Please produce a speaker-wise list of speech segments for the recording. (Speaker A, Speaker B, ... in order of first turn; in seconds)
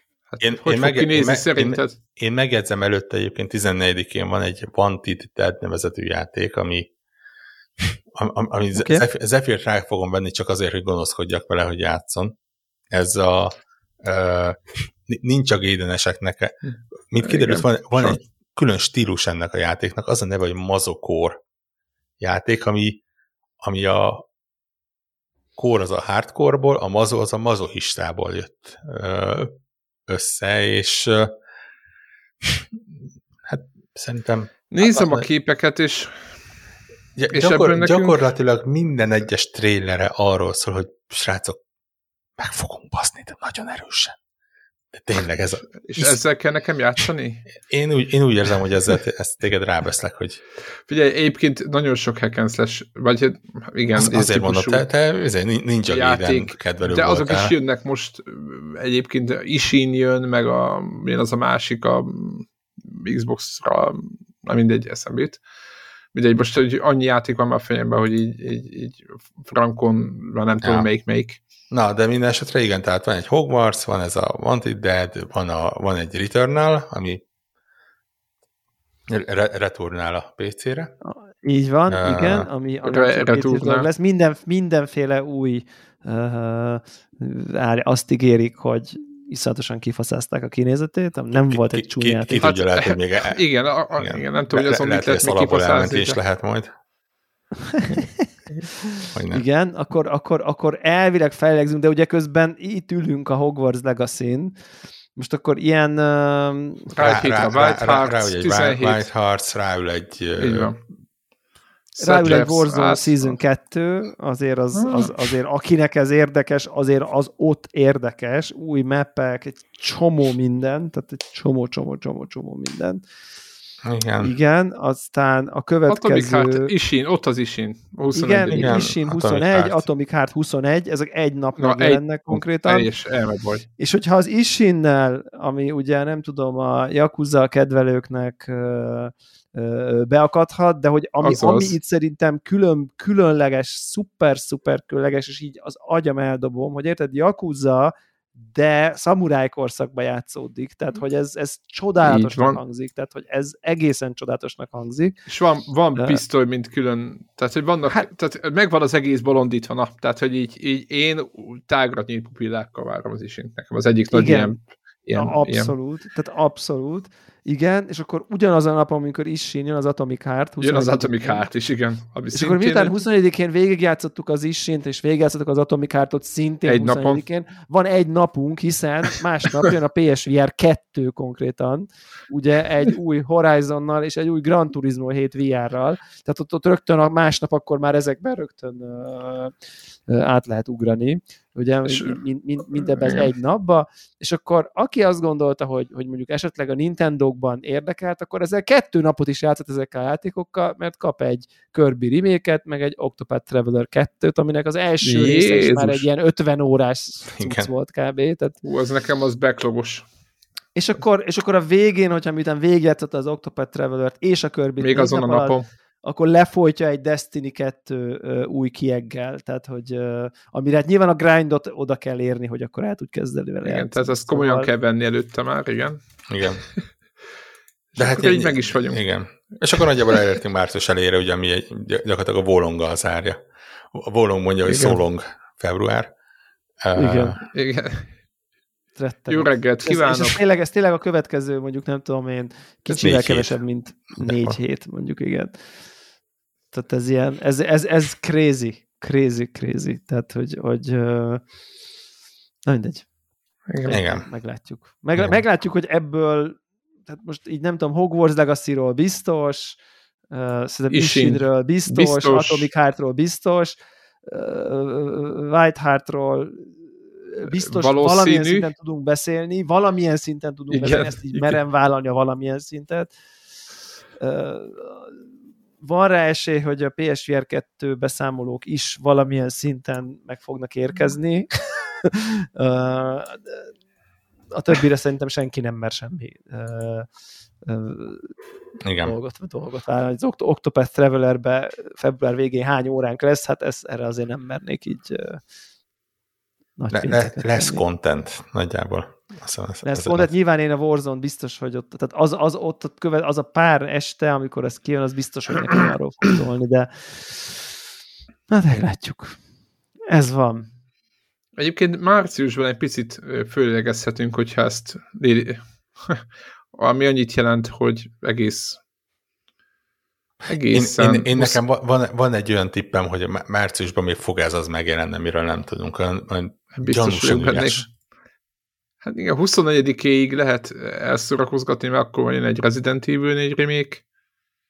Speaker A: 0.3-2.0, 17.2-18.1, 34.7-36.2, 37.3-38.1, 45.8-47.4, 50.9-54.8, 55.9-65.4, 66.1-71.4, 82.8-83.9, 92.4-96.2, 106.9-109.0, 110.4-110.8, 112.0-113.3, 114.7-115.1, 125.9-128.8, 131.6-133.7, 141.2-141.7, 152.0-152.6, 155.3-165.7, 170.6-173.0, 176.7-177.2, 191.9-192.2, 193.0-193.3, 205.0-206.1, 208.6-210.0, 214.8-215.7, 223.6-226.0, 227.9-229.1, 229.8-230.2, 234.6-235.0, 237.5-238.1, 239.3-240.4, 253.7-254.0, 260.9-262.7, 267.5-268.7, 270.7-271.6, 311.6-318.8, 320.5-321.6, 326.8-327.9, 329.0-334.0
Speaker B: 0.4-6.9, 7.8-12.3, 12.9-16.5, 17.1-21.4, 22.2-23.0, 23.6-24.2, 25.6-29.6, 30.1-31.3, 33.5-35.2, 37.1-41.6, 42.4-44.2, 44.9-46.2, 47.6-50.4, 53.9-57.5, 70.6-70.9, 71.7-77.2, 79.1-80.9, 81.9-82.5, 91.5-93.4, 93.9-96.7, 99.1-99.4, 107.0-110.7, 123.8-124.3, 128.5-129.9, 207.3-207.7, 226.3-226.6, 228.0-236.1, 236.8-237.4, 242.9-243.6, 244.2-244.6, 253.9-254.3, 288.8-289.1, 296.9-300.3, 320.7-327.9
Speaker C: 8.7-9.0, 81.0-92.5, 97.7-98.3, 99.3-104.5, 105.2-106.9, 112.0-123.0, 124.2-126.7, 128.1-132.9, 133.8-155.1, 155.9-156.2, 164.1-164.5, 165.2-171.5, 172.3-189.5, 190.1-208.6, 210.8-224.7, 236.9-237.4, 239.0-245.6, 246.7-251.4, 252.7-253.1, 253.8-259.8, 260.3-273.1, 274.2-275.1, 275.8-283.7, 284.5-287.1, 287.6-288.3, 289.0-295.4, 296.8-297.8, 299.8-307.6, 308.5-309.4, 310.1-310.7